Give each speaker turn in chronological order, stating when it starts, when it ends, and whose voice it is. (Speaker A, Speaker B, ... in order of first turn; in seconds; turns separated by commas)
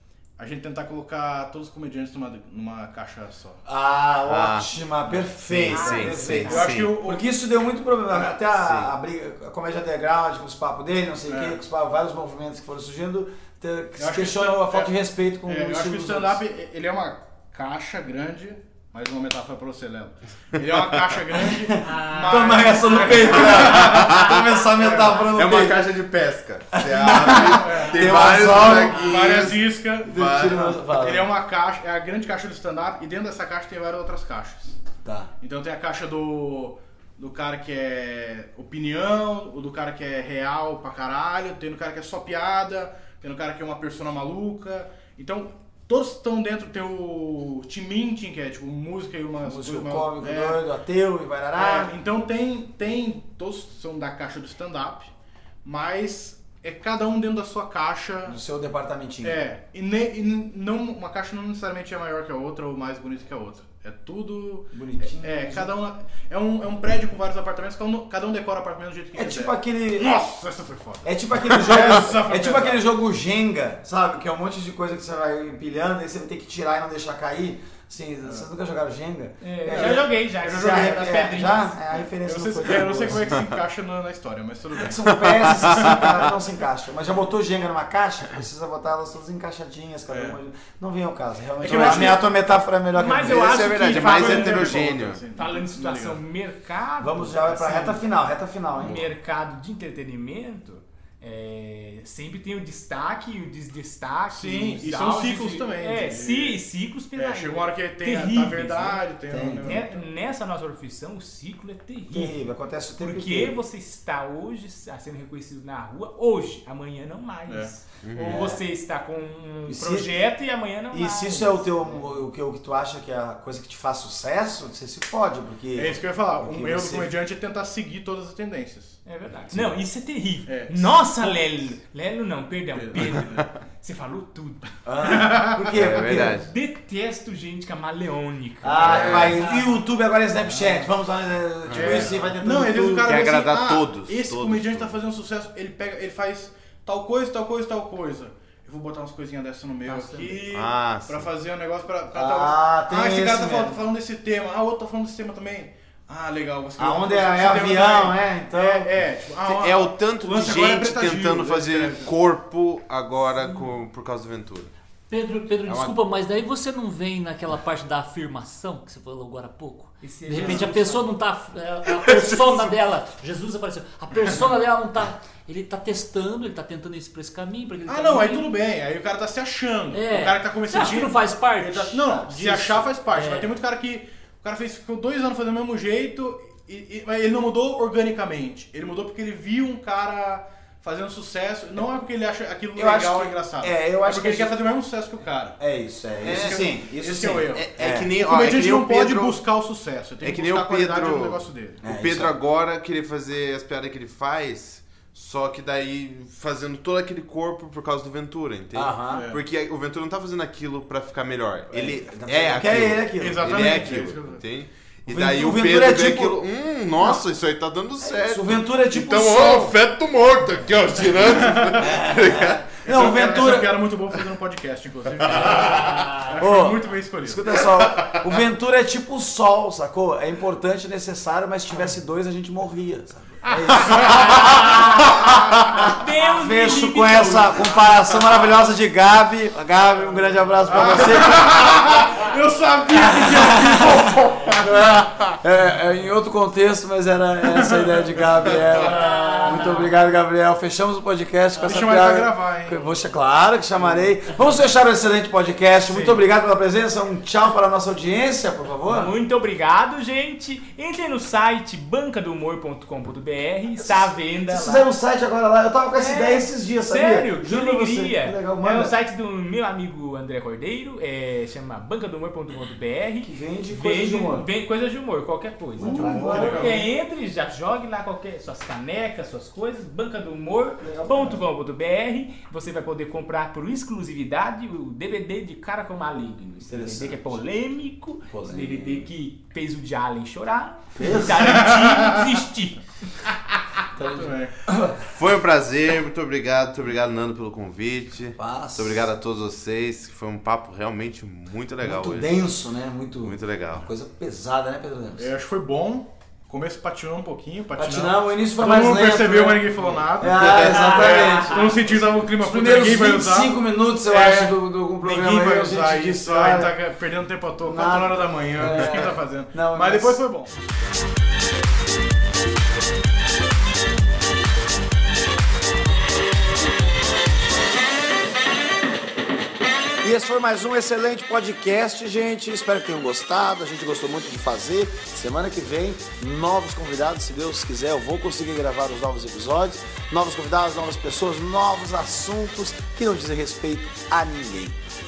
Speaker A: 0.4-3.6, Speaker B: 3.6-16.4, Speaker C: 4.3-4.7, Speaker C: 5.5-7.0, Speaker D: 5.7-6.7, Speaker A: 6.4-7.3, Speaker A: 8.1-8.4, Speaker C: 8.6-8.9, Speaker A: 11.2-11.6, Speaker A: 14.0-14.9, Speaker A: 15.4-25.2, Speaker B: 21.6-25.9, Speaker C: 25.2-30.7, Speaker B: 26.7-29.5, Speaker A: 27.1-34.8, Speaker B: 30.0-31.3, Speaker B: 35.0-35.3, Speaker A: 35.4-50.6, Speaker B: 49.4-51.9, Speaker A: 51.5-55.1, Speaker A: 55.6-58.4, Speaker B: 58.2-59.4, Speaker A: 59.2-72.8, Speaker B: 64.7-65.7, Speaker B: 69.1-70.2, Speaker B: 71.0-83.4, Speaker D: 79.4-81.7, Speaker A: 79.7-81.1, Speaker A: 82.0-86.2, Speaker B: 84.8-93.8, Speaker C: 85.1-86.1, Speaker A: 90.1-90.4, Speaker A: 91.6-92.3, Speaker D: 92.9-98.0, Speaker C: 93.2-95.2, Speaker A: 93.7-96.2, Speaker B: 97.0-99.1, Speaker D: 98.8-109.0, Speaker A: 104.3-106.6, Speaker A: 107.1-110.0, Speaker B: 109.3-109.8, Speaker D: 109.6-112.4, Speaker B: 112.1-113.5, Speaker D: 113.0-122.0, Speaker A: 117.5-117.7, Speaker C: 118.0-118.6, Speaker B: 118.2-118.6, Speaker B: 119.7-120.2, Speaker B: 120.9-127.1, Speaker A: 125.7-129.0, Speaker D: 129.1-134.7, Speaker A: 130.5-130.9, Speaker A: 132.7-133.5, Speaker B: 134.8-136.4, Speaker A: 135.0-135.6, Speaker C: 135.7-136.5, Speaker D: 136.0-139.5, Speaker B: 138.6-143.2, Speaker A: 138.8-139.4, Speaker C: 138.9-139.3, Speaker C: 141.7-142.1, Speaker A: 141.7-162.1, Speaker C: 143.0-144.9, Speaker D: 149.9-150.4, Speaker C: 150.5-151.3, Speaker B: 152.1-153.8, Speaker B: 156.8-158.9, Speaker C: 159.4-164.7, Speaker E: 165.1-178.5, Speaker C: 165.6-166.0, Speaker D: 170.0-171.0, Speaker A: 170.3-170.6, Speaker C: 171.9-172.7, Speaker A: 177.8-195.6, Speaker E: 179.9-183.5, Speaker B: 192.7-194.5, Speaker B: 195.6-198.1, Speaker A: 196.2-201.8, Speaker C: 196.2-196.6, Speaker C: 197.5-199.4, Speaker C: 200.2-222.7, Speaker B: 201.8-202.4, Speaker B: 208.7-209.2, Speaker A: 209.1-209.4, Speaker B: 211.7-214.1, Speaker A: 213.2-214.4, Speaker B: 215.1-217.2, Speaker B: 218.0-219.8, Speaker A: 221.1-221.9, Speaker B: 221.8-223.8, Speaker A: 222.8-227.7, Speaker C: 225.2-226.1, Speaker E: 225.9-226.2, Speaker B: 226.4-242.1, Speaker D: 234.3-237.8, Speaker A: 240.7-245.0, Speaker B: 243.0-259.1, Speaker A: 247.4-248.0, Speaker E: 249.1-249.4, Speaker A: 251.6-252.8, Speaker A: 255.9-256.2, Speaker D: 258.9-264.9, Speaker B: 263.8-268.9, Speaker D: 265.9-293.3, Speaker B: 273.2-274.4, Speaker B: 275.8-276.8, Speaker A: 275.8-276.8, Speaker B: 280.8-281.4, Speaker B: 286.7-287.4, Speaker B: 288.3-289.1, Speaker B: 290.9-291.6, Speaker A: 291.4-292.2, Speaker B: 293.9-295.0, Speaker A: 294.1-294.5, Speaker C: 295.1-302.3, Speaker B: 298.4-299.1, Speaker B: 301.8-305.3, Speaker C: 303.2-303.9, Speaker A: 305.2-320.5, Speaker B: 307.8-316.7, Speaker C: 310.4-311.2, Speaker B: 317.6-320.2, Speaker B: 330.0-344.8